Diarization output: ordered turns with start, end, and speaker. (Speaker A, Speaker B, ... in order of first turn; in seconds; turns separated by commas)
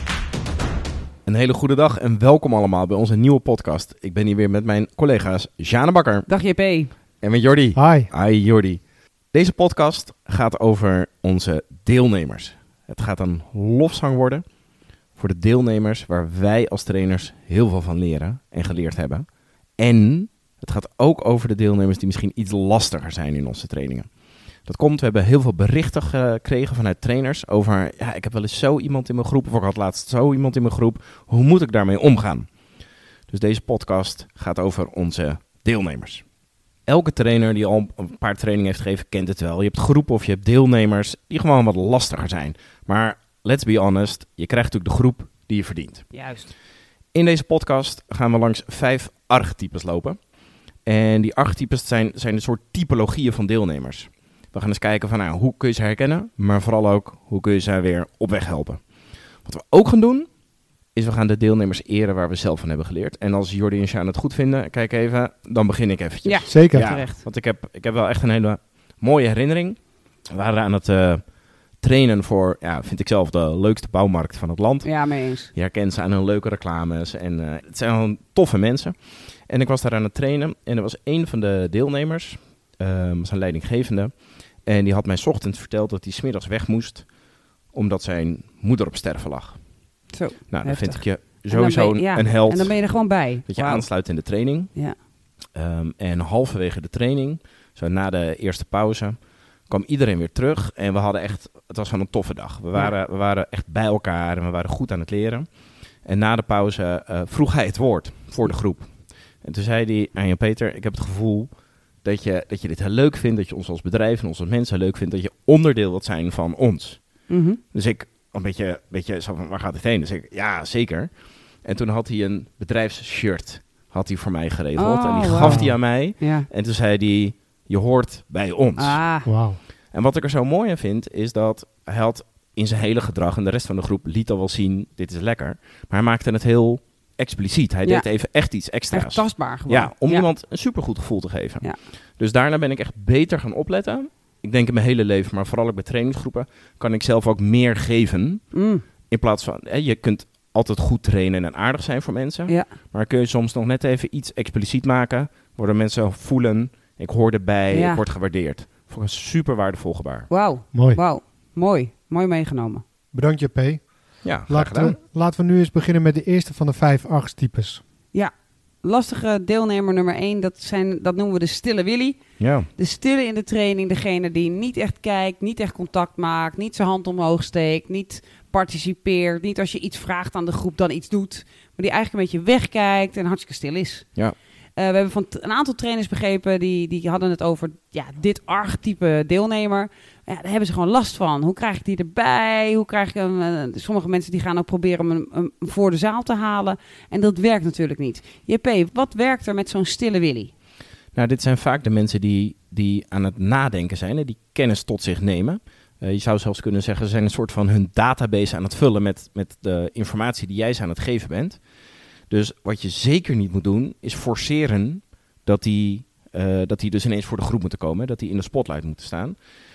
Speaker A: 1.3-6.3, Speaker B: 6.3-6.9, Speaker A: 7.2-8.8, Speaker C: 7.8-8.1, Speaker A: 9.3-14.4, Speaker A: 15.2-19.2, Speaker A: 19.8-24.1, Speaker A: 24.7-32.5, Speaker A: 33.3-36.2, Speaker A: 36.9-46.1, Speaker B: 46.1-46.5, Speaker A: 47.1-50.2, Speaker A: 50.9-58.8, Speaker A: 59.4-60.3, Speaker A: 60.9-71.3, Speaker B: 66.2-67.2, Speaker C: 66.5-67.0, Speaker A: 71.8-74.9, Speaker B: 74.8-75.5, Speaker A: 75.5-79.0, Speaker A: 79.5-84.1, Speaker A: 84.7-87.1, Speaker A: 87.7-89.6, Speaker B: 90.1-93.9, Speaker A: 90.5-94.7, Speaker A: 95.5-99.2, Speaker A: 99.7-105.5, Speaker A: 106.0-108.9, Speaker A: 109.4-111.5, Speaker A: 112.0-117.0, Speaker B: 117.3-117.6, Speaker A: 117.7-121.1, Speaker A: 121.6-129.0, Speaker B: 124.8-126.5, Speaker C: 125.4-125.7, Speaker B: 128.8-129.3, Speaker C: 129.2-129.6, Speaker A: 129.9-148.5, Speaker B: 138.9-140.3, Speaker B: 148.5-148.8, Speaker A: 149.1-160.3, Speaker B: 157.7-158.0, Speaker B: 160.3-162.8, Speaker C: 160.7-161.0, Speaker C: 163.1-167.8, Speaker A: 164.2-165.0, Speaker B: 168.8-172.2, Speaker A: 172.4-172.7, Speaker B: 172.8-184.1, Speaker B: 184.8-200.5, Speaker A: 201.1-211.6, Speaker A: 212.3-219.4